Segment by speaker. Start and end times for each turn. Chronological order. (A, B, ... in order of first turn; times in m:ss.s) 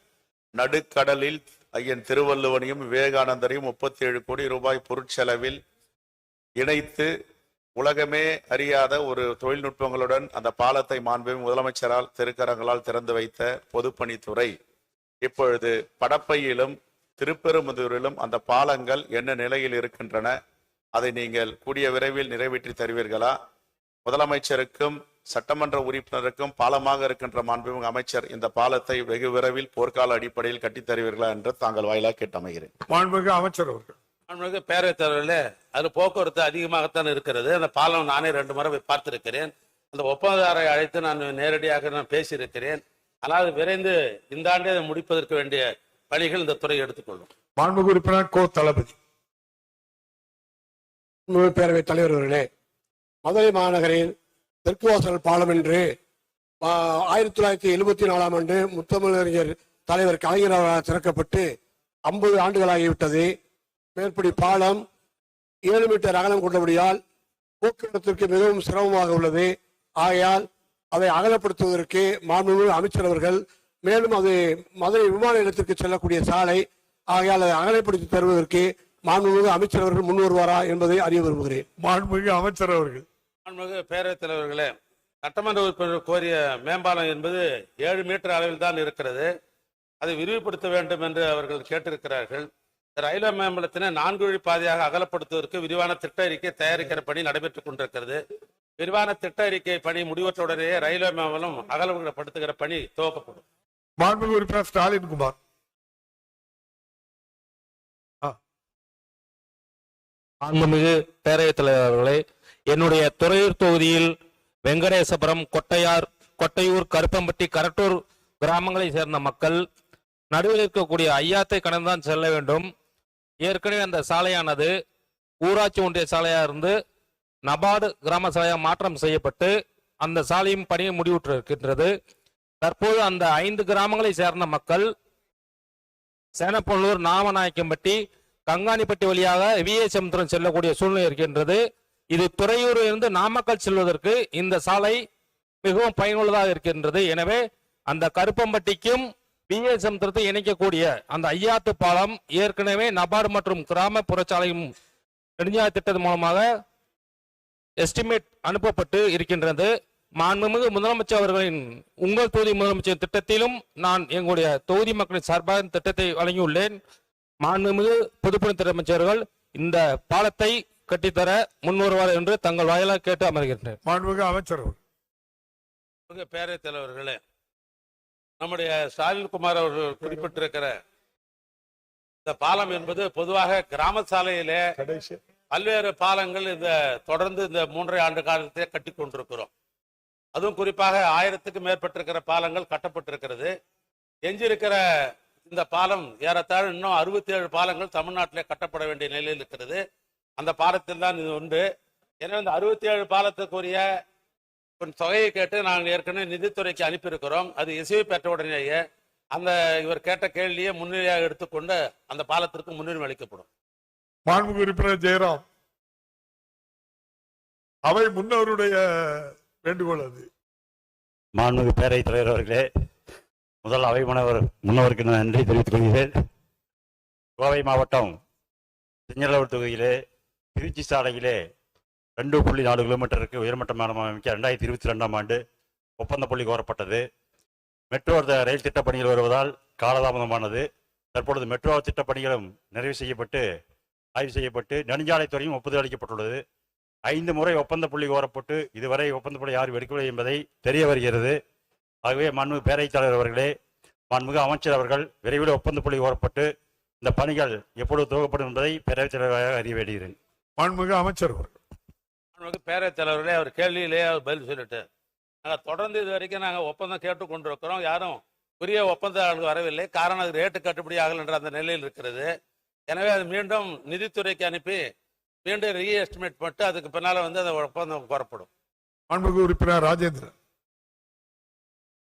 0:00.5-0:05.6 A
0:06.6-0:07.1 A
0:07.8-0:14.5 A
0:15.2-0:20.3 A
0:20.9-0:23.3 A
0:24.0-0:32.7 A
0:32.9-0:33.9 B
0:34.3-0:47.3 C
0:47.6-0:48.9 B
0:51.3-0:52.4 D
0:53.2-0:54.1 D
0:54.6-0:55.8 D
0:56.6-1:01.4 D
1:02.1-1:03.3 D
1:04.0-1:04.8 D
1:05.7-1:07.0 D
1:07.6-1:21.6 D
1:21.8-1:23.0 B
1:23.4-1:24.7 C
1:25.2-1:29.3 C
1:30.0-1:32.4 C
1:33.0-1:38.2 C
1:38.8-1:43.4 C
1:44.0-1:45.4 B
1:50.4-1:54.1 E
1:54.6-1:59.6 E
2:00.3-2:02.7 E
2:03.4-2:04.7 E
2:05.4-2:06.7 E
2:07.4-2:11.9 E
2:12.6-2:14.9 E
2:16.4-2:25.0 E
2:25.6-2:34.7 E
2:35.4-2:36.5 E
2:37.8-2:46.8 E
2:47.4-2:53.8 E
2:53.8-2:54.8 B
2:56.1-2:57.2 C
2:58.4-3:00.7 C
3:02.2-3:04.6 C
3:04.8-3:05.2 B
3:05.5-3:09.5 C
3:10.4-3:13.5 C
3:14.3-3:14.8 C
3:15.4-3:19.8 C
3:20.4-3:21.6 C
3:22.2-3:23.8 C
3:24.8-3:28.8 C
3:29.3-3:33.4 C
3:34.3-3:35.4 B
3:37.8-3:40.3 B
3:41.4-3:42.6 F
3:43.6-3:46.1 F
3:47.4-3:48.2 F
3:49.1-3:50.0 F
3:50.5-3:51.4 F
3:52.2-3:55.4 F
3:56.0-3:57.0 F
3:57.9-4:03.4 F
4:04.2-4:06.4 F
4:07.1-4:11.4 F
4:12.0-4:13.5 F
4:14.1-4:16.5 F
4:17.0-4:20.2 F
4:20.6-4:21.5 B
4:22.4-4:24.8 C
4:25.4-4:32.3 C
4:32.9-4:34.8 C
4:35.4-4:38.5 C
4:39.1-4:40.3 B